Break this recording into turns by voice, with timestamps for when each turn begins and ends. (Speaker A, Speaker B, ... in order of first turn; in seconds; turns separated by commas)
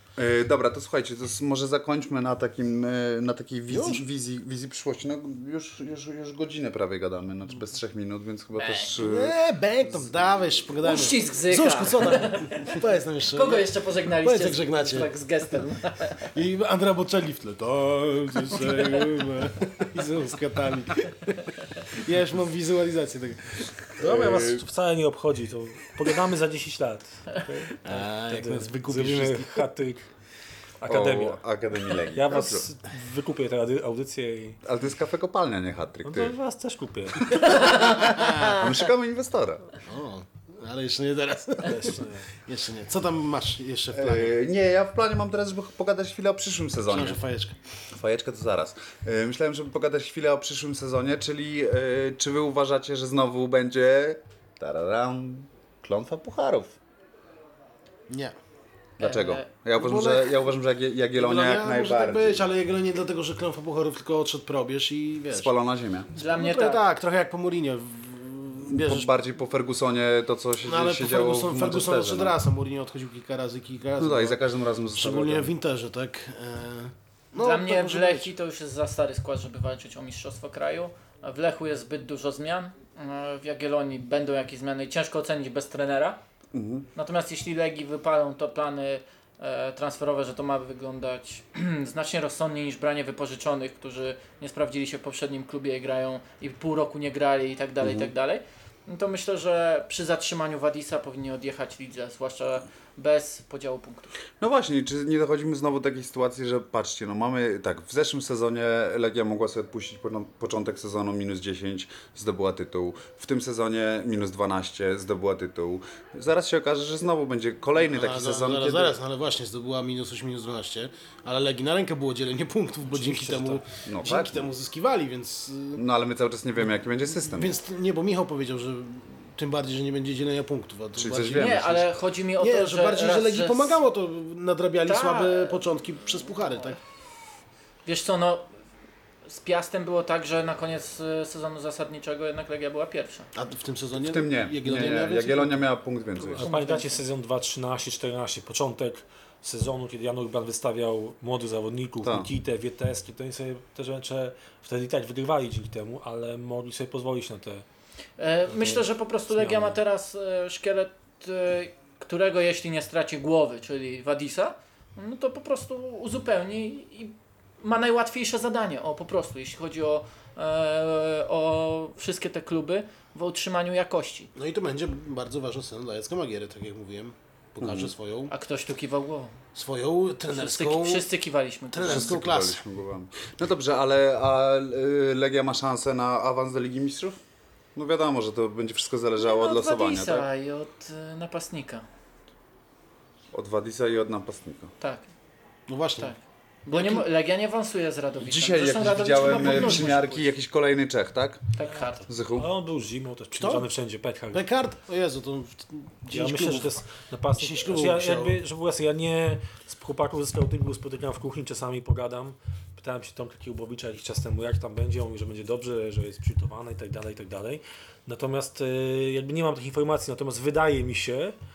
Speaker A: 0.2-10.4, Speaker B: 3.7-4.0, Speaker C: 8.6-8.9, Speaker B: 9.0-15.1, Speaker C: 10.8-16.3, Speaker B: 16.2-24.6, Speaker A: 24.0-24.6, Speaker D: 24.1-30.1, Speaker B: 27.8-29.7, Speaker D: 30.8-31.4, Speaker A: 30.9-32.7, Speaker D: 32.1-34.6, Speaker A: 34.6-36.3, Speaker D: 36.0-37.5, Speaker A: 37.2-39.7, Speaker B: 37.5-38.7, Speaker B: 39.8-44.3, Speaker D: 41.6-42.3, Speaker A: 43.9-47.2, Speaker B: 46.9-47.6, Speaker A: 47.9-56.8, Speaker B: 58.1-58.4, Speaker A: 59.0-62.5, Speaker C: 59.0-59.5, Speaker B: 59.8-60.4, Speaker B: 61.1-65.5, Speaker A: 65.3-66.1, Speaker C: 66.2-66.8, Speaker B: 66.2-69.2, Speaker A: 68.6-72.4, Speaker B: 70.6-74.4, Speaker A: 74.0-75.5, Speaker B: 75.0-78.3, Speaker C: 77.4-86.2, Speaker A: 86.5-86.9, Speaker C: 87.0-104.1, Speaker A: 104.4-119.0, Speaker B: 117.8-125.8, Speaker D: 122.9-123.6, Speaker A: 123.8-124.5, Speaker A: 125.8-127.6, Speaker B: 127.2-136.8, Speaker A: 130.9-131.8, Speaker C: 131.4-133.8, Speaker C: 134.9-135.6, Speaker C: 137.9-138.5, Speaker C: 139.3-143.3, Speaker B: 143.3-145.6, Speaker A: 144.0-146.5, Speaker C: 146.2-147.0, Speaker D: 146.4-157.7, Speaker A: 152.0-152.3, Speaker C: 158.2-174.3, Speaker D: 158.6-159.8, Speaker B: 174.3-178.3, Speaker A: 177.6-177.9, Speaker C: 178.3-179.4, Speaker B: 179.5-181.1, Speaker C: 180.3-182.2, Speaker B: 181.7-182.6, Speaker A: 181.8-187.2, Speaker A: 187.8-190.3, Speaker C: 189.2-191.9, Speaker A: 193.3-194.7, Speaker C: 194.8-195.1, Speaker B: 195.7-196.1, Speaker C: 196.0-200.3, Speaker B: 196.7-197.1, Speaker A: 198.2-201.4, Speaker B: 199.4-199.8, Speaker C: 201.6-202.0, Speaker A: 202.1-202.5, Speaker D: 202.3-204.4, Speaker B: 203.4-203.7, Speaker B: 204.3-206.8, Speaker D: 206.1-221.3, Speaker B: 207.3-208.4